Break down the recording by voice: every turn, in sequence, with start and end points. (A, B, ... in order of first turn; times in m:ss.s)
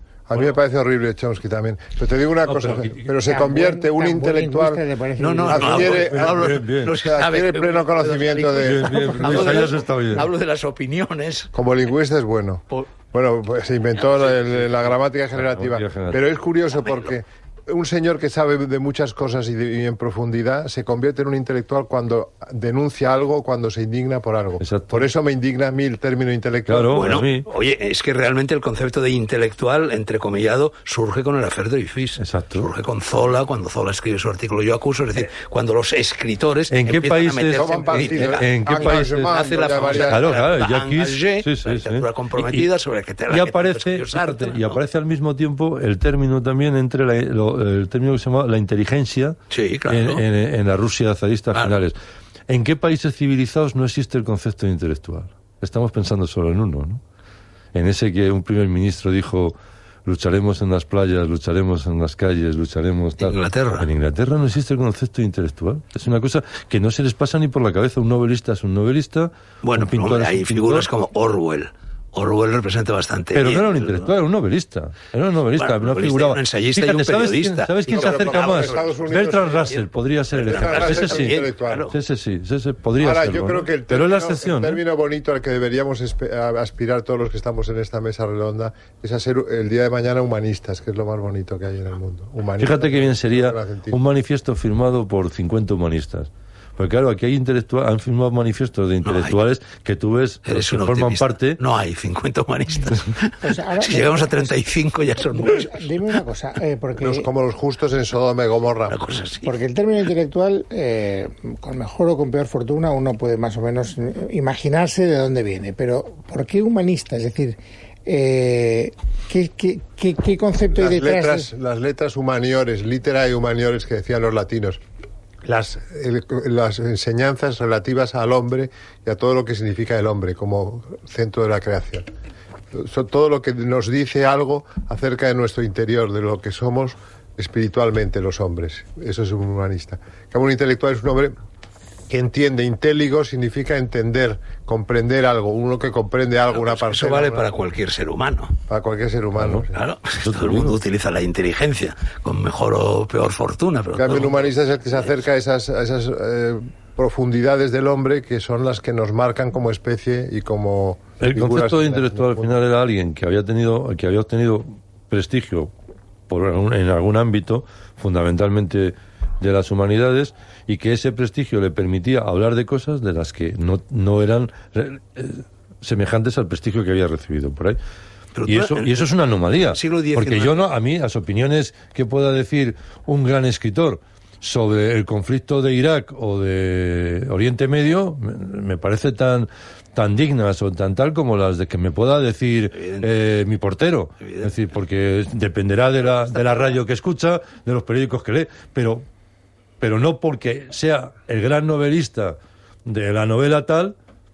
0:00.3-0:04.8 A
0:02.4-0:03.1 B
0:03.2-0:05.9 C
0:05.2-0:11.5 D
0:05.5-0:09.7 A
0:05.8-0:07.0 B
0:08.5-0:10.3 B
0:11.5-0:27.2 A
0:14.0-0:14.7 D
0:15.3-0:16.2 B
0:16.8-0:17.1 D
0:24.6-0:25.1 B
0:26.7-0:27.5 B
0:26.9-0:44.8 D
0:32.2-0:32.7 B
0:36.7-0:42.7 B
0:37.6-0:40.4 A
0:43.3-0:52.0 B
0:49.5-0:50.2 D
0:52.5-0:57.0 B
0:57.7-1:10.9 B
1:03.2-1:03.9 D
1:09.6-1:14.1 D
1:13.3-1:24.8 B
1:15.6-1:19.0 D
1:17.9-1:19.8 A
1:19.7-1:22.0 D
1:20.4-1:21.9 A
1:23.0-1:34.0 A
1:32.6-1:41.6 B
1:39.0-1:39.4 D
1:40.4-1:45.9 D
1:43.4-1:44.6 C
1:45.2-1:47.3 C
1:47.0-1:49.2 A
1:48.9-1:49.6 D
1:49.4-2:01.5 C
2:00.7-2:04.8 A
2:05.4-2:12.1 A
2:12.7-2:21.4 A
2:22.1-2:27.4 A
2:26.5-2:28.6 D
2:28.7-2:29.7 A
2:29.4-2:30.8 B
2:29.7-2:34.5 D
2:34.0-2:42.5 A
2:41.2-2:45.7 B
2:46.3-2:57.8 B
2:58.4-2:59.1 D
2:58.5-3:19.1 B
2:59.6-3:00.6 D
3:12.7-3:13.1 D
3:14.2-3:14.5 D
3:16.0-3:16.8 D
3:19.8-3:24.0 B